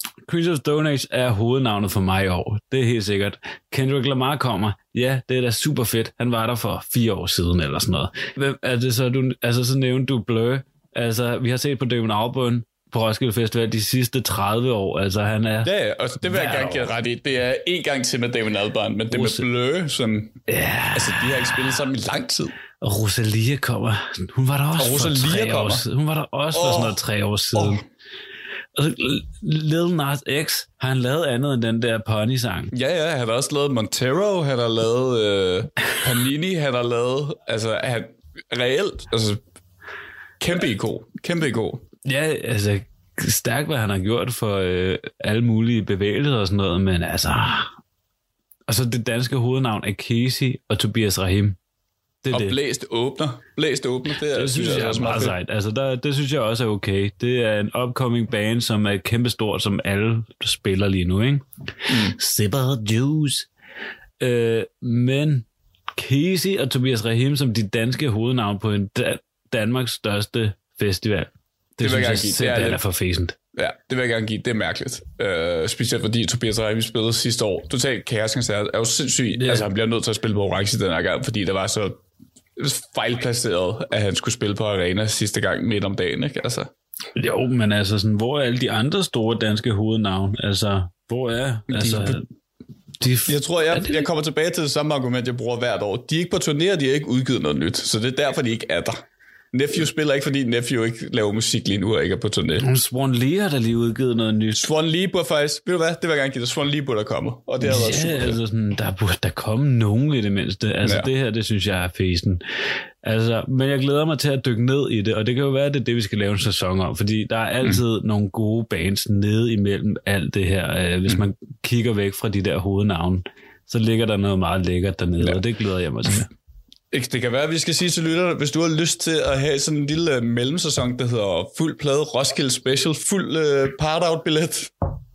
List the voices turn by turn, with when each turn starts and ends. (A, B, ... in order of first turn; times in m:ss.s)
0:00.3-0:15.7 A
0:15.6-0:20.4 B
0:16.2-0:16.9 A
0:19.1-0:19.4 A
0:20.5-0:21.8 A
0:20.9-0:22.6 B
0:22.8-0:27.8 A
0:24.8-0:25.8 B
0:26.5-0:27.0 B
0:27.5-0:27.8 B
0:28.7-0:32.7 A
0:32.7-0:39.4 B
0:40.4-0:41.8 B
0:42.0-0:47.7 A
0:48.7-0:51.6 A
0:52.2-0:52.6 A
0:52.3-0:55.4 B
0:54.2-1:03.5 A
1:01.9-1:02.2 B
1:04.2-1:13.4 A
1:11.8-1:12.8 B
1:13.5-1:22.0 B
1:19.4-1:19.7 A
1:22.6-1:26.7 B
1:27.2-1:32.2 A
1:31.7-1:32.2 B
1:33.0-1:34.1 A
1:33.3-1:42.6 B
1:42.6-1:44.6 A
1:44.5-1:48.4 B
1:47.6-1:52.4 A
1:50.8-1:51.1 B
1:53.0-2:06.3 A
2:06.9-2:14.8 B